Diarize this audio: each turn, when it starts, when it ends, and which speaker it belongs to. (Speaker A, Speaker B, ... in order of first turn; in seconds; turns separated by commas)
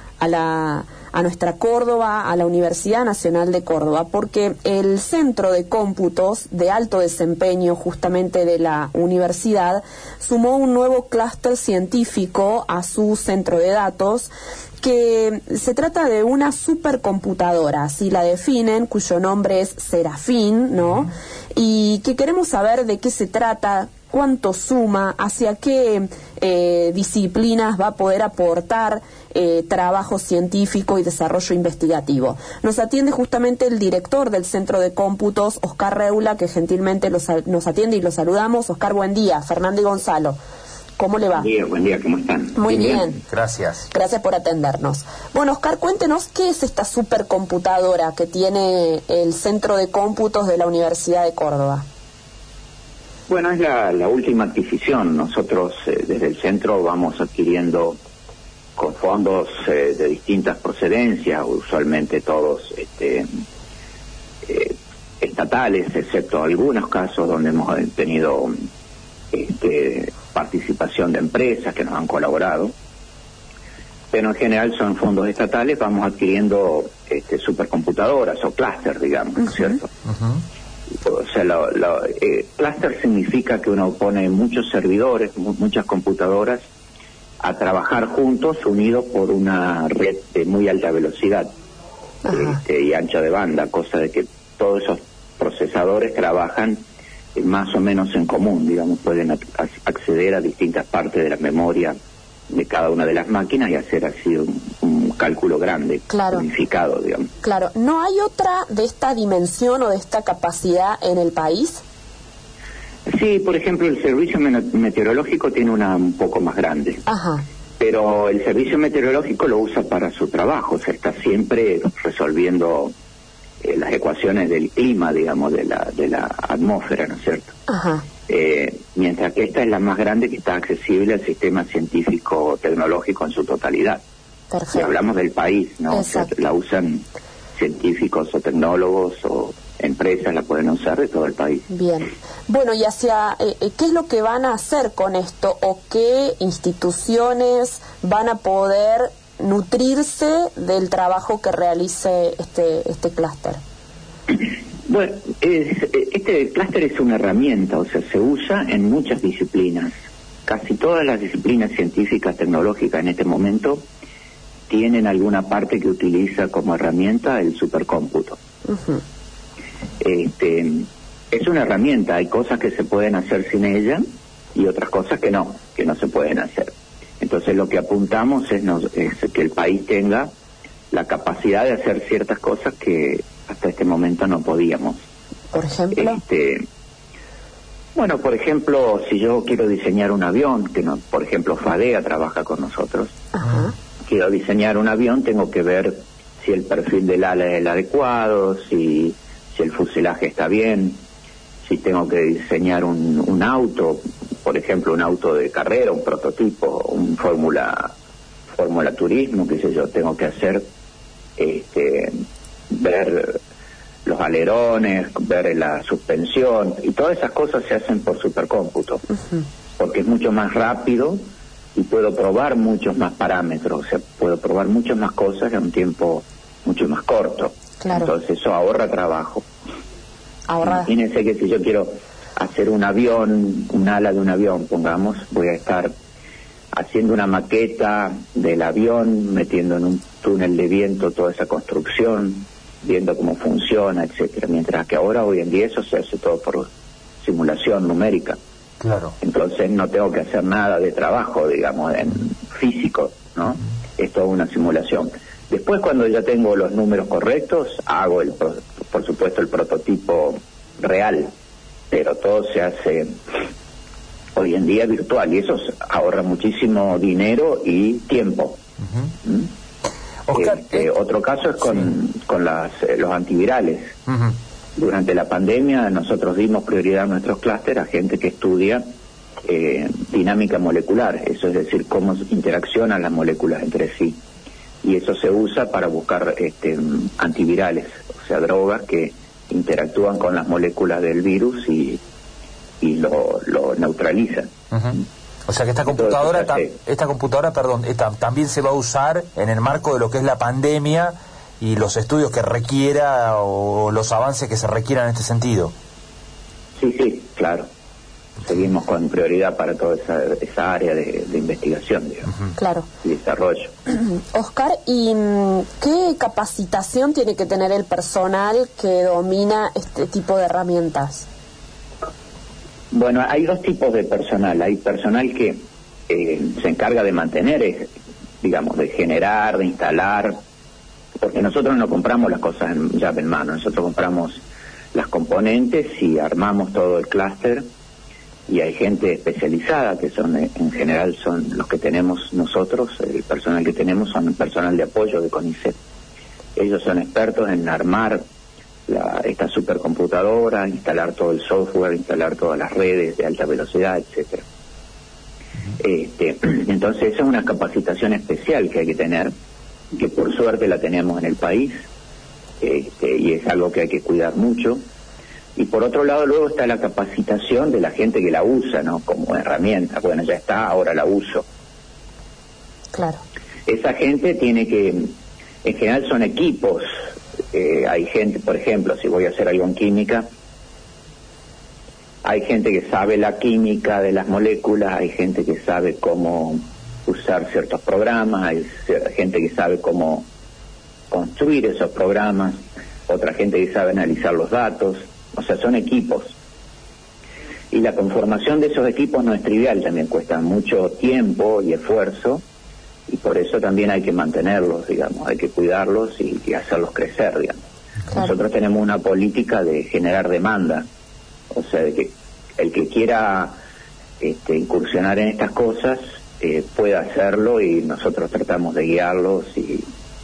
Speaker A: 0.2-14.3, Speaker A: 14.8-40.4, Speaker A: 41.0-41.5, Speaker B: 41.4-43.1, Speaker A: 42.6-43.2, Speaker C: 43.3-43.9, Speaker A: 43.9-51.8, Speaker B: 53.3-58.0, Speaker B: 58.8-63.3, Speaker B: 64.5-68.5, Speaker B: 69.3-72.7, Speaker B: 74.1-79.9, Speaker B: 81.0-86.7, Speaker B: 87.4-91.5, Speaker A: 92.3-92.6, Speaker B: 92.3-96.8, Speaker B: 97.3-102.0, Speaker B: 102.5-107.3, Speaker A: 106.1-106.5, Speaker A: 107.4-111.8, Speaker B: 113.1-117.0, Speaker A: 117.1-117.4, Speaker B: 117.8-122.9, Speaker B: 123.6-127.5, Speaker A: 127.7-128.1, Speaker B: 128.3-134.0, Speaker A: 134.5-134.9, Speaker B: 134.7-137.0, Speaker A: 135.9-136.3, Speaker B: 137.6-141.7, Speaker A: 141.7-153.6, Speaker B: 154.9-159.9, Speaker B: 160.5-163.8, Speaker B: 164.7-168.4, Speaker A: 168.7-169.0, Speaker B: 170.0-174.0, Speaker B: 174.6-180.3, Speaker B: 180.9-185.0, Speaker A: 185.5-186.2, Speaker B: 185.9-186.6, Speaker B: 188.0-193.2, Speaker A: 193.3-193.7, Speaker B: 194.1-201.0, Speaker B: 201.7-207.9, Speaker B: 208.6-210.6, Speaker B: 211.4-212.1, Speaker B: 212.7-213.4, Speaker B: 214.1-219.0, Speaker B: 219.8-221.2, Speaker B: 221.8-229.5, Speaker A: 227.8-228.1, Speaker A: 230.5-230.9, Speaker B: 230.6-235.9, Speaker B: 236.7-246.7, Speaker B: 247.2-248.4, Speaker C: 248.8-249.2, Speaker B: 249.2-261.3, Speaker B: 261.9-263.1, Speaker B: 264.4-268.6, Speaker C: 270.3-270.9, Speaker B: 270.3-273.9, Speaker C: 274.1-274.4, Speaker B: 274.8-278.8, Speaker B: 279.4-284.2, Speaker B: 284.8-292.0, Speaker B: 292.8-294.5, Speaker C: 294.7-305.7, Speaker B: 295.9-296.7, Speaker B: 306.8-307.7, Speaker B: 308.5-312.3, Speaker A: 312.6-312.9, Speaker B: 313.0-313.7, Speaker A: 313.9-321.3, Speaker B: 322.9-327.9, Speaker B: 328.4-330.4, Speaker B: 331.2-334.4, Speaker B: 334.9-337.6, Speaker B: 338.5-345.8, Speaker B: 346.6-348.2, Speaker B: 348.9-354.4, Speaker B: 355.8-359.3, Speaker B: 359.9-361.8, Speaker B: 362.6-364.8, Speaker B: 365.6-371.4, Speaker A: 372.9-373.2, Speaker B: 373.7-375.1, Speaker B: 375.6-376.9, Speaker B: 377.5-380.3, Speaker B: 382.2-390.3, Speaker B: 391.1-396.4, Speaker B: 397.7-402.4, Speaker B: 403.1-410.9, Speaker B: 411.5-413.6, Speaker B: 414.2-419.9